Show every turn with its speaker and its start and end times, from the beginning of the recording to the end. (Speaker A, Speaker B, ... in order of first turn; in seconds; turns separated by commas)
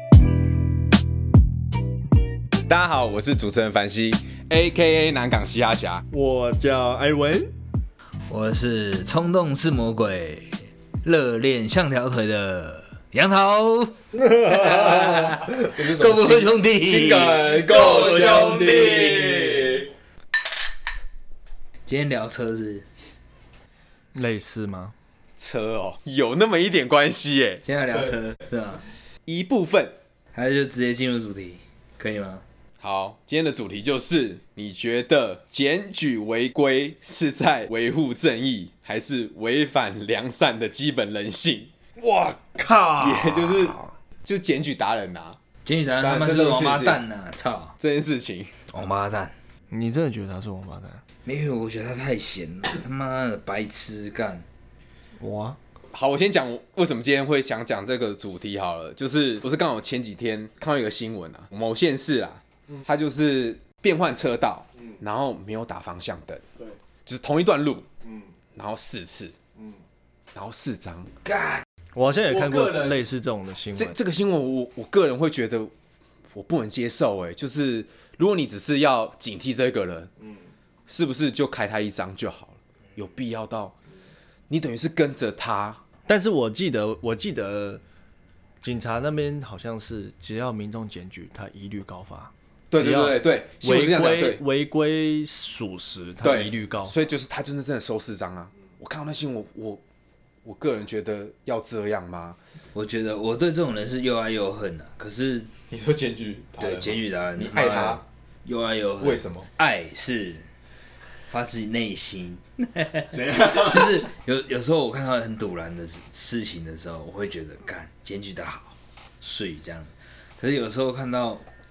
Speaker A: 2.7-6.0, Speaker B: 6.1-7.5, Speaker C: 8.3-19.7, Speaker B: 14.2-14.8, Speaker A: 14.9-19.9, Speaker B: 16.9-19.7, Speaker C: 21.9-22.8, Speaker B: 24.1-24.9, Speaker A: 25.4-27.6, Speaker C: 27.6-28.8, Speaker A: 29.3-29.9, Speaker C: 30.3-32.4, Speaker A: 32.8-41.7, Speaker B: 42.0-43.9, Speaker A: 43.0-45.4, Speaker C: 45.6-47.8, Speaker A: 46.0-47.0, Speaker A: 47.8-48.5, Speaker C: 48.7-49.3, Speaker B: 49.7-51.0, Speaker C: 51.2-54.4, Speaker B: 55.2-55.6, Speaker A: 55.9-66.4, Speaker A: 67.0-67.9, Speaker A: 68.5-69.3, Speaker A: 70.3-71.1, Speaker C: 71.2-71.6, Speaker B: 71.9-74.0, Speaker A: 72.3-73.0, Speaker A: 73.8-75.7, Speaker A: 76.3-80.1, Speaker A: 80.9-83.7, Speaker A: 84.5-85.8, Speaker B: 86.1-87.8, Speaker B: 88.6-96.9, Speaker A: 92.7-94.4, Speaker A: 96.2-99.8, Speaker A: 100.4-102.4, Speaker C: 102.7-105.5, Speaker A: 105.7-108.0, Speaker C: 106.6-110.5, Speaker A: 109.0-109.5, Speaker C: 111.3-121.5, Speaker A: 113.2-114.0